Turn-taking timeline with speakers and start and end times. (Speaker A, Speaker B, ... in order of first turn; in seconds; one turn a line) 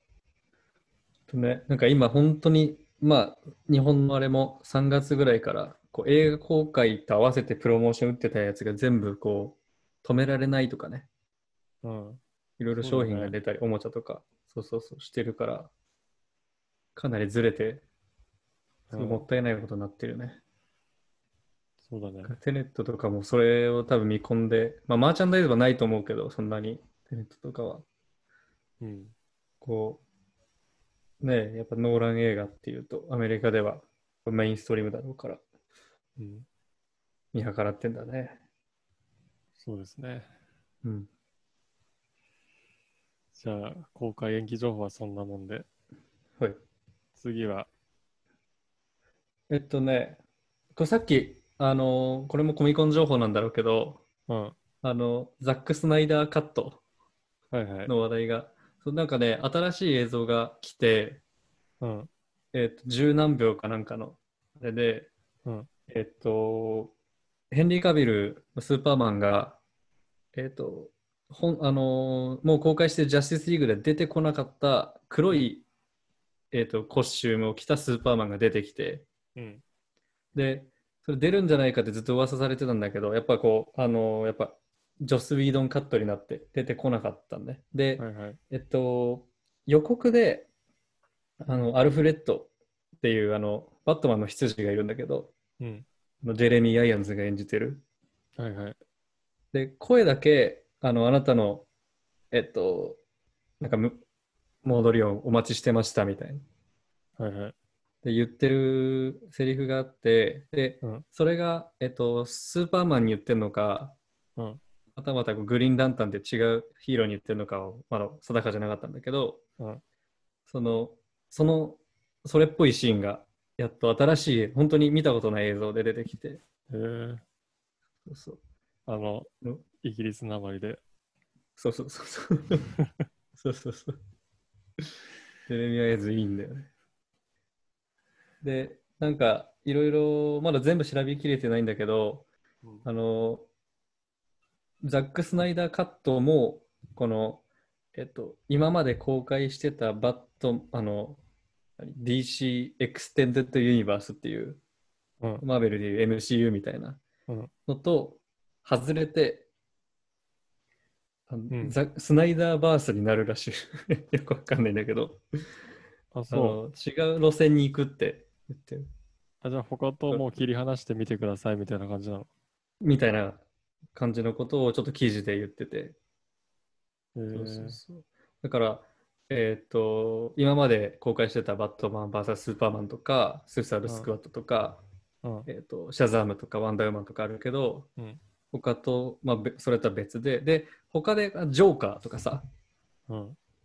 Speaker A: 1.3-11.1
Speaker B: 11.8-12.2
Speaker A: 12.6-15.7
Speaker B: 12.7-13.4
Speaker A: 17.0-17.8
Speaker B: 18.9-19.3
Speaker A: 18.9-20.4
Speaker B: 21.8-22.4
Speaker A: 22.2-27.9
Speaker B: 28.8-29.1
Speaker A: 29.6-30.0
Speaker A: 31.2-35.4
Speaker B: 36.2-36.5
Speaker A: 37.3-38.4
Speaker B: 39.6-40.3
Speaker A: 40.8-41.1
Speaker B: 43.3-45.7
Speaker B: 47.2-47.7
Speaker A: 49.5-50.2
Speaker A: 50.8-54.0
Speaker B: 54.3-54.6
Speaker A: 54.8-56.8
Speaker B: 57.5-57.9
Speaker A: 57.9-61.2
Speaker B: 61.8-62.1
Speaker A: 62.5-65.1
Speaker A: 65.9-66.9
Speaker A: 67.5-69.6
Speaker A: 70.3-75.7
Speaker A: 76.5-79.1
Speaker B: 79.4-79.6
Speaker A: 80.3-90.5
Speaker B: 88.0-88.4
Speaker A: 91.4-95.3
Speaker B: 95.6-95.9
Speaker A: 96.2-97.8
Speaker B: 98.4-98.8
Speaker A: 99.5-101.7
Speaker A: 102.3-103.0
Speaker A: 103.6-104.0
Speaker A: 104.6-106.5
Speaker B: 107.2-107.5
Speaker A: 108.0-114.0
Speaker A: 115.0-119.4
Speaker A: 120.5-126.4
Speaker B: 126.7-127.2
Speaker A: 128.1-128.4
Speaker B: 128.9-129.3
Speaker B: 129.8-130.8
Speaker A: 131.6-132.6
Speaker A: 133.4-134.0
Speaker A: 135.5-136.7
Speaker A: 138.4-142.3
Speaker A: 142.8-143.5
Speaker A: 144.8-147.4
Speaker A: 147.9-151.2
Speaker A: 151.8-154.6
Speaker A: 155.4-157.0
Speaker A: 157.7-159.5
Speaker A: 161.3-165.2
Speaker B: 161.5-161.8
Speaker B: 166.1-166.6
Speaker A: 166.3-168.9
Speaker B: 169.4-172.3
Speaker A: 172.8-176.0
Speaker B: 177.2-177.8
Speaker A: 177.3-184.8
Speaker B: 185.2-185.5
Speaker A: 185.5-187.9
Speaker A: 188.5-192.5
Speaker B: 193.1-193.4